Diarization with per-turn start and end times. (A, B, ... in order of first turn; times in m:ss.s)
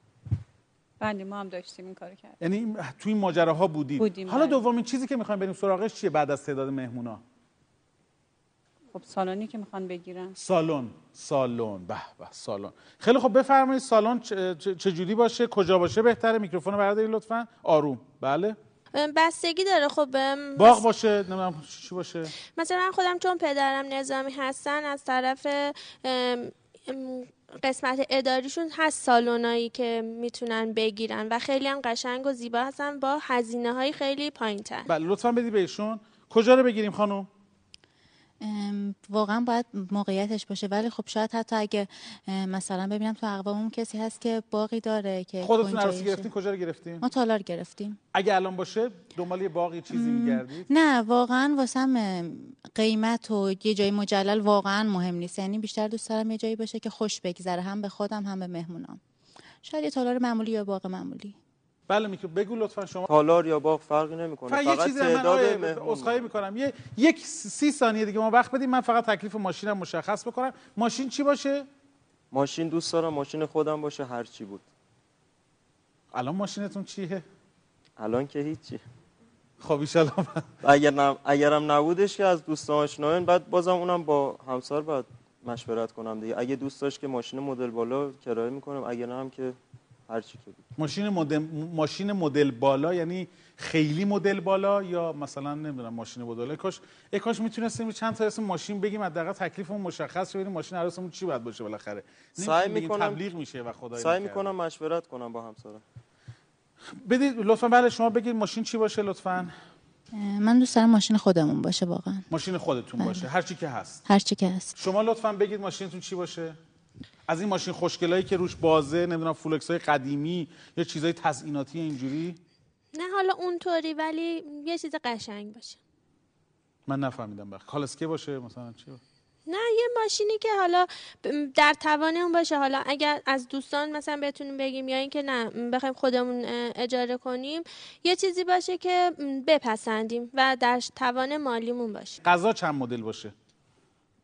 0:01.0-0:02.3 A
0:02.4-0:07.2 B
0:04.0-0:04.6 A
0:08.9-0:10.4 A
0:10.4-0:18.6 B
0:18.9-0:20.8 C
0:20.6-0:22.3 B
0:22.6-0:34.9 C
0:34.9-0:37.3 B
0:38.4-0:46.3 D
0:45.4-0:47.0 B
0:47.0-0:48.0 D
0:48.1-0:50.7 B
0:49.9-0:59.0 D
0:59.6-1:01.4 D
1:01.9-1:03.1 B
1:03.1-1:06.3 E
1:04.5-1:11.7 B
1:12.3-1:14.6 E
1:16.1-1:17.2 B
1:18.0-1:18.8 E
1:19.6-1:20.5 B
1:20.6-1:29.6 E
1:30.1-1:30.6 E
1:30.8-1:44.5 B
1:42.4-1:43.2 E
1:44.0-1:45.8 E
1:47.0-1:49.5 B
1:50.1-1:52.3 D
1:52.3-1:54.0 B
1:53.0-1:53.3 D
1:54.0-1:54.8 D
1:54.8-1:56.6 B
1:57.3-2:02.4 B
2:02.9-2:05.8 C
2:06.9-2:09.0 B
2:09.5-2:22.2 C
2:22.2-2:23.3 B